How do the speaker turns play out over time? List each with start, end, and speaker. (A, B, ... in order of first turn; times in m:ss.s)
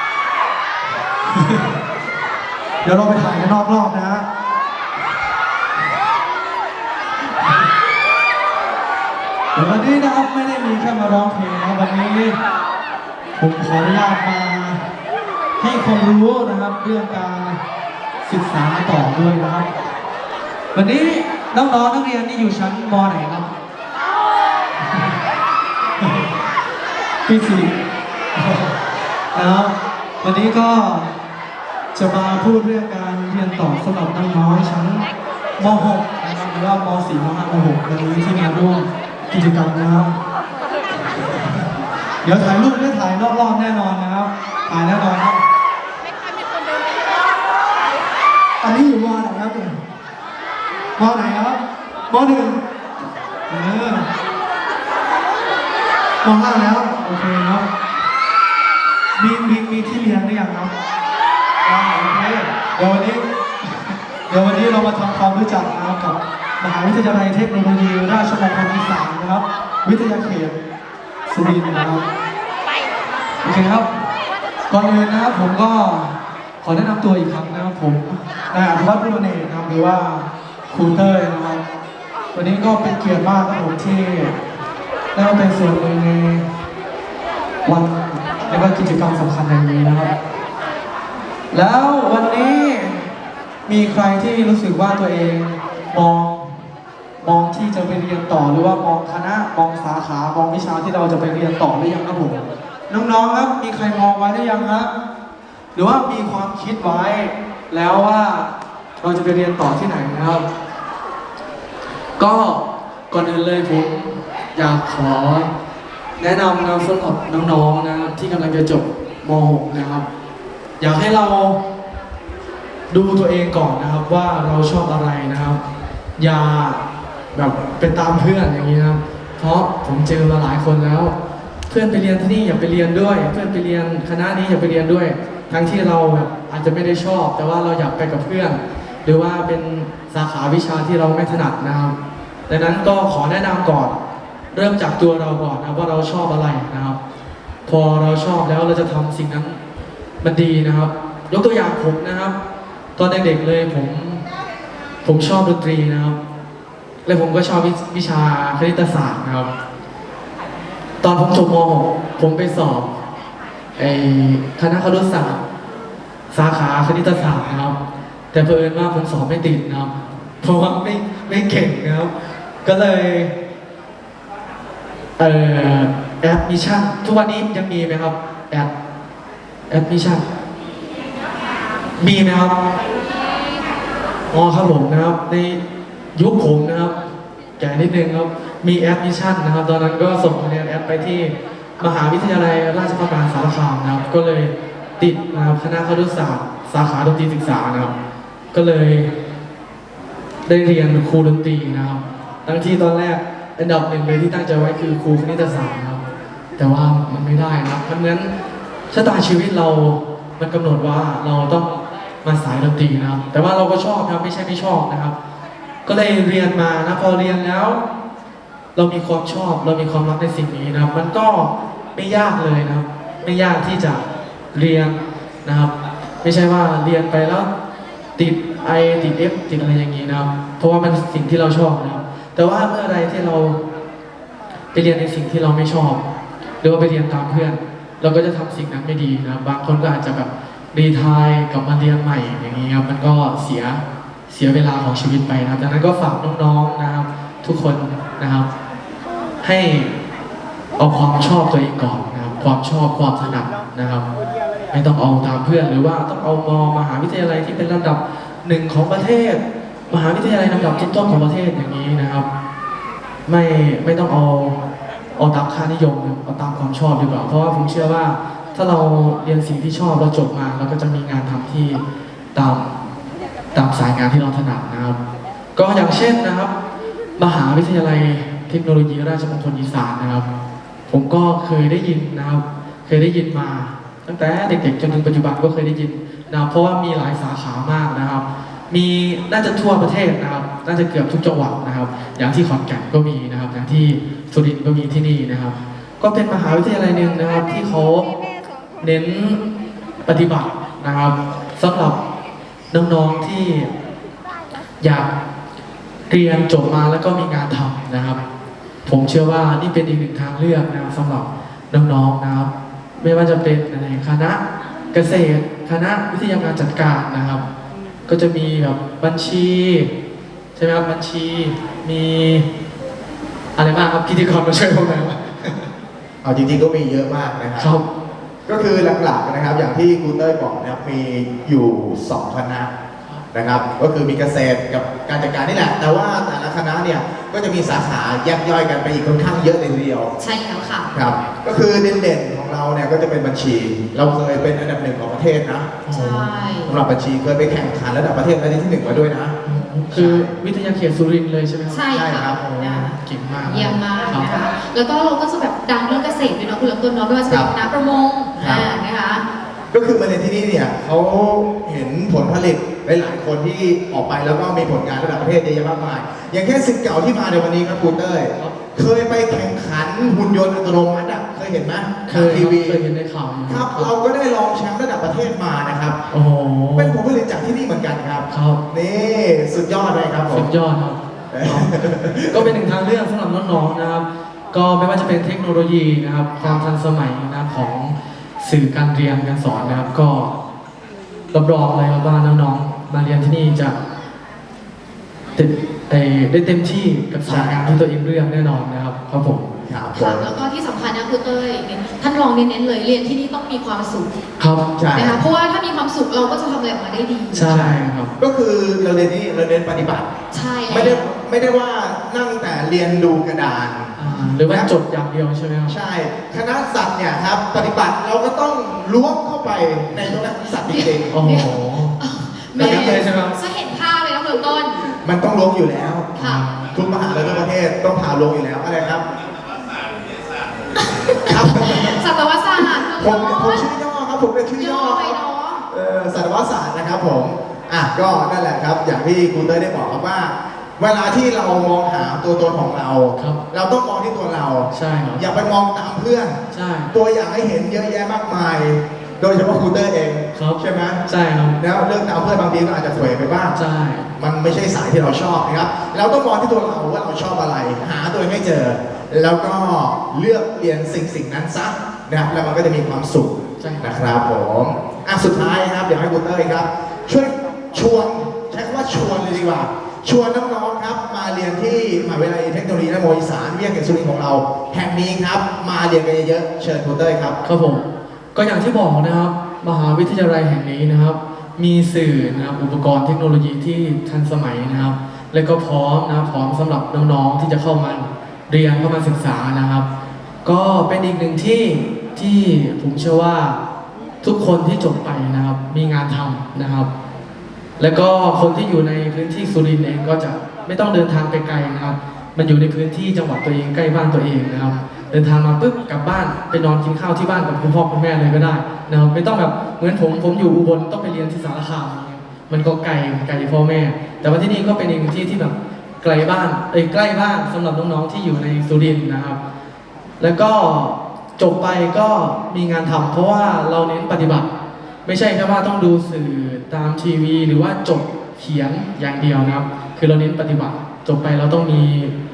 0:01.4-0:01.6 A
0:02.8-0:04.3 A
0:09.5-0:12.4 A
0:13.4-0:14.9 A
0:15.6-0:17.6 A
0:18.3-0:19.7 A
0:20.7-0:23.5 A
0:27.3-0:27.8 A
0:28.4-0:28.8 A
0:29.3-0:31.1 A
0:31.9-0:35.0 A
0:35.6-0:40.2 A
0:42.2-0:45.4 A
0:48.6-0:49.8 A
0:51.0-0:52.6 A
0:53.5-0:54.1 A
0:56.2-0:57.7 A
0:59.2-1:00.7 A
1:01.6-1:03.3 A
1:04.3-1:10.6 A
1:11.3-1:12.1 A
1:13.4-1:13.9 A
1:14.7-1:21.6 A
1:22.3-1:24.4 A
1:25.2-1:26.5 A
1:27.6-1:30.1 A
1:31.5-1:33.1 A
1:33.7-1:36.5 A
1:37.2-1:44.9 A
1:45.8-1:50.5 A
1:52.2-1:55.5 A
1:56.2-2:00.1 A
2:00.8-2:01.6 A
2:02.9-2:05.6 A
2:06.2-2:06.8 A
2:07.3-2:11.2 A
2:11.7-2:22.0 A
2:22.5-2:24.0 A
2:24.5-2:27.0 A
2:27.7-2:29.6 A
2:30.2-2:32.4 A
2:33.0-2:34.2 A
2:35.0-2:36.2 A
2:37.0-2:39.5 A
2:41.0-2:42.9 A
2:43.8-2:45.4 A
2:46.3-2:47.8 A
2:48.3-2:52.1 A
2:52.6-2:53.3 A
2:55.2-2:58.7 A
2:59.7-3:00.2 A
3:02.0-3:02.7 A
3:04.3-3:05.6 A
3:06.1-3:07.0 A
3:07.6-3:18.0 A
3:18.5-3:19.1 A
3:20.5-3:26.0 A
3:26.6-3:28.3 A
3:28.9-3:35.2 A
3:35.8-3:37.8 A
3:38.8-3:45.7 A
3:46.2-3:47.5 A
3:48.2-3:53.6 A
3:54.7-3:56.0 A
3:56.6-4:08.5 A
4:09.4-4:09.9 A
4:10.8-4:14.0 A
4:14.7-4:22.3 A
4:23.3-4:24.6 A
4:25.2-4:31.8 A
4:32.4-4:32.7 A
4:33.5-4:35.0 A
4:35.6-4:36.5 A
4:37.2-4:40.3 A
4:40.9-4:58.1 A
4:58.8-4:59.4 A
5:00.0-5:02.0 A
5:02.7-5:03.7 A
5:04.8-5:05.1 A
5:06.1-5:08.2 A
5:08.8-5:17.4 A
5:18.1-5:19.9 A
5:20.6-5:22.5 A
5:23.6-5:25.7 A
5:26.2-5:27.7 B
5:27.6-5:27.9 A
5:28.5-5:32.7 B
5:33.3-5:40.1 B
5:40.2-5:40.9 C
5:40.9-5:45.8 B
5:45.8-5:46.3 A
5:45.9-5:46.8 C
5:46.7-5:49.4 B
5:49.4-5:54.3 A
5:49.9-5:50.4 B
5:51.7-5:59.3 C
5:51.9-5:52.4 B
5:58.4-5:58.7 B
5:59.7-6:12.8 B
6:12.1-6:13.9 A
6:13.5-6:16.0 B
6:16.1-6:17.0 A
6:16.8-6:20.5 B
6:18.3-6:18.6 A
6:20.3-6:30.4 A
6:21.3-6:22.5 B
6:31.3-6:33.8 A
6:35.4-6:39.5 A
6:37.3-6:37.8 B
6:39.6-6:40.3 B
6:39.9-6:44.2 C
6:44.4-6:44.7 A
6:44.8-6:45.2 B
6:44.9-6:47.5 C
6:47.3-6:48.1 A
6:47.5-6:50.1 B
6:50.3-6:51.0 C
6:50.7-6:54.7 B
6:54.0-6:55.8 A
6:55.7-7:01.1 B
7:00.7-7:04.8 C
7:01.1-7:02.0 A
7:02.6-7:03.4 A
7:02.6-7:03.0 B
7:05.0-7:09.0 B
7:06.2-7:06.4 C
7:06.2-7:06.7 A
7:10.8-7:13.7 C
7:11.3-7:12.0 B
7:12.6-7:26.4 B
7:14.6-7:15.6 C
7:24.7-7:25.2 A
7:26.5-7:26.9 A
7:26.9-7:31.0 B
7:30.4-7:31.6 A
7:31.6-7:33.6 B
7:33.5-7:34.1 A
7:34.2-7:57.4 B
7:43.6-7:43.9 A
7:57.4-8:09.9 A
8:10.4-8:13.6 A
8:14.2-8:16.9 A
8:17.8-8:39.4 A
8:40.2-8:44.5 A
8:45.0-8:52.1 A